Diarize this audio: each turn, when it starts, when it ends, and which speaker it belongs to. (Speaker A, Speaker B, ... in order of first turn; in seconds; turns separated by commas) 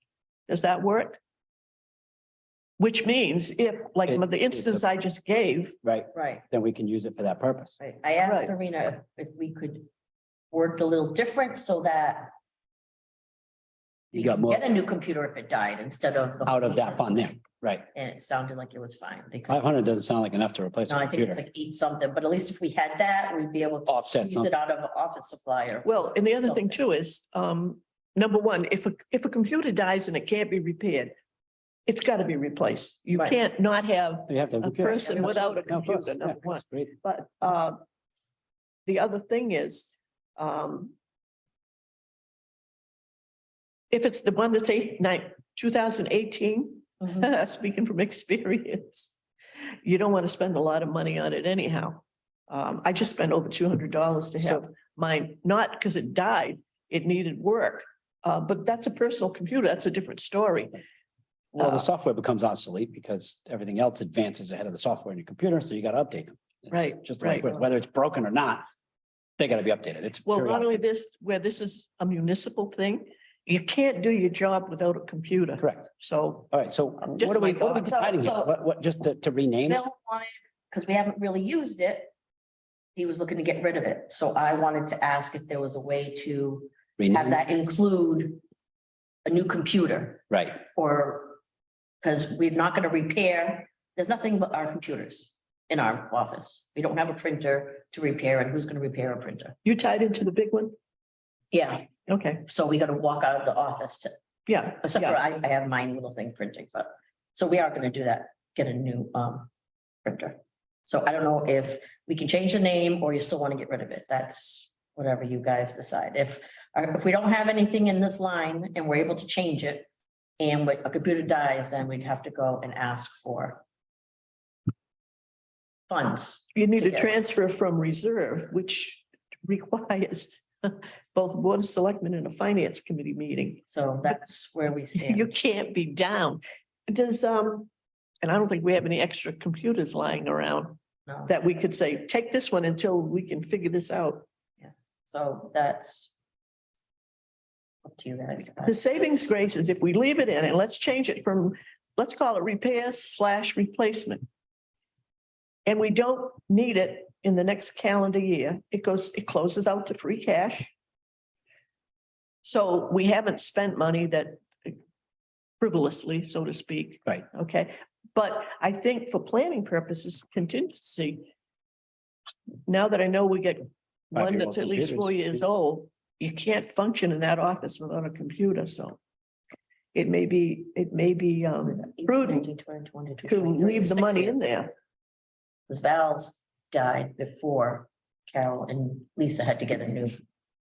Speaker A: 0.5-1.2, Speaker A: 2.8-5.8, Speaker B: 4.1-4.8, Speaker B: 5.8-7.8, Speaker C: 6.1-6.4, Speaker C: 7.8-9.9, Speaker A: 8.2-8.5, Speaker C: 10.5-12.3, Speaker B: 14.1-14.7, Speaker C: 14.1-17.4, Speaker B: 16.4-17.9, Speaker C: 17.9-19.7, Speaker B: 19.5-21.4, Speaker C: 20.9-26.8, Speaker B: 23.9-24.5, Speaker A: 25.9-31.1, Speaker A: 31.9-37.8, Speaker C: 33.1-33.4, Speaker B: 34.3-36.9, Speaker C: 34.9-35.7, Speaker A: 38.9-40.9, Speaker A: 43.9-49.2, Speaker A: 49.8-60.8, Speaker A: 61.5-61.9, Speaker B: 61.6-68.7, Speaker A: 66.7-67.7, Speaker B: 69.4-70.8, Speaker A: 70.3-77.9, Speaker B: 75.6-75.9, Speaker B: 76.5-79.8, Speaker C: 77.5-78.5, Speaker C: 79.7-82.1, Speaker C: 83.0-88.4, Speaker B: 87.0-87.4, Speaker C: 89.2-91.4, Speaker B: 90.3-90.6, Speaker C: 92.0-99.5, Speaker A: 99.7-100.8, Speaker C: 101.5-101.9, Speaker A: 102.1-102.5, Speaker C: 102.5-104.1, Speaker A: 104.5-105.2, Speaker C: 104.8-109.5, Speaker C: 110.0-119.9, Speaker C: 120.4-123.6, Speaker C: 125.9-127.2, Speaker A: 126.5-133.7, Speaker C: 133.7-135.3, Speaker A: 135.0-137.7, Speaker A: 138.2-144.3, Speaker C: 141.1-141.4, Speaker C: 144.6-146.1, Speaker C: 147.8-148.8, Speaker A: 148.7-154.2, Speaker A: 155.7-160.7, Speaker A: 162.4-164.8, Speaker A: 165.6-171.3, Speaker A: 172.7-179.0, Speaker B: 174.2-175.3, Speaker A: 179.9-182.5, Speaker C: 181.6-184.6, Speaker A: 183.2-184.7, Speaker C: 185.7-190.2